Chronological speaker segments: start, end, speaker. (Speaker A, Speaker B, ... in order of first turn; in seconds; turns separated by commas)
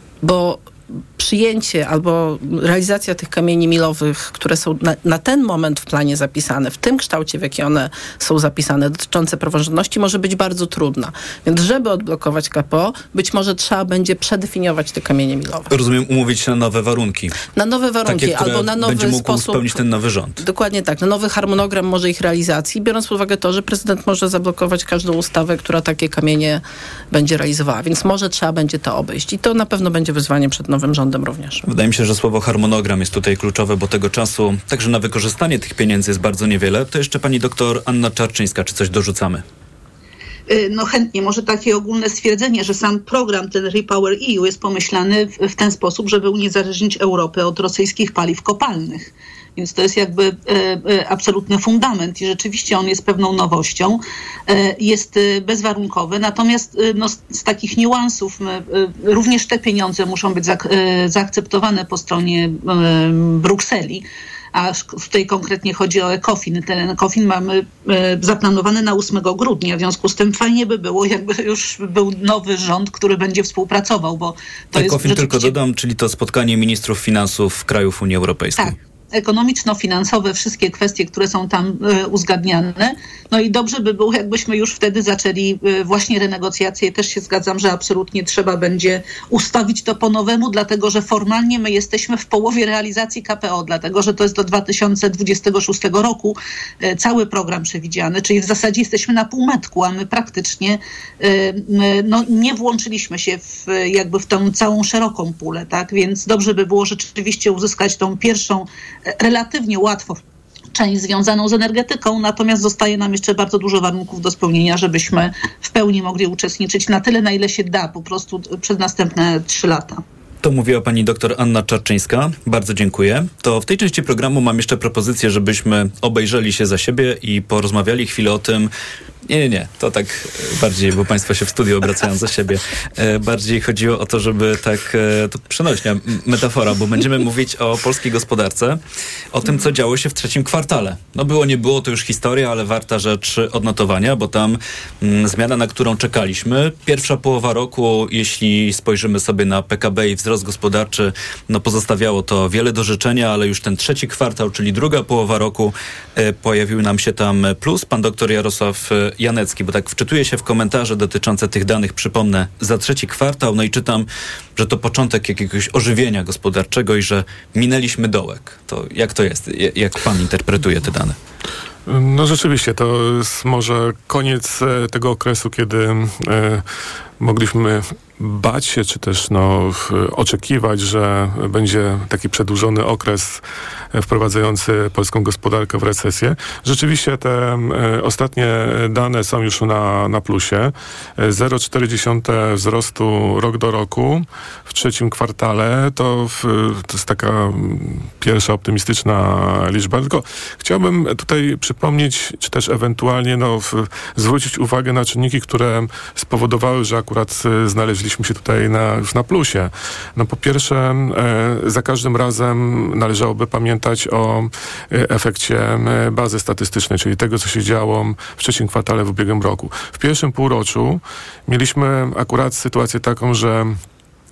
Speaker A: 0.2-15.7, Speaker B: 15.7-17.4, Speaker A: 17.5-19.8, Speaker B: 18.1-20.4, Speaker A: 20.4-31.6, Speaker B: 31.7-39.4, Speaker C: 40.5-75.6, Speaker B: 74.8-78.8, Speaker C: 78.6-110.2, Speaker C: 110.7-120.0, Speaker B: 120.4-128.7, Speaker B: 129.3-138.8, Speaker B: 139.3-171.2, Speaker D: 171.9-176.7, Speaker D: 177.2-183.4, Speaker D: 183.9-223.8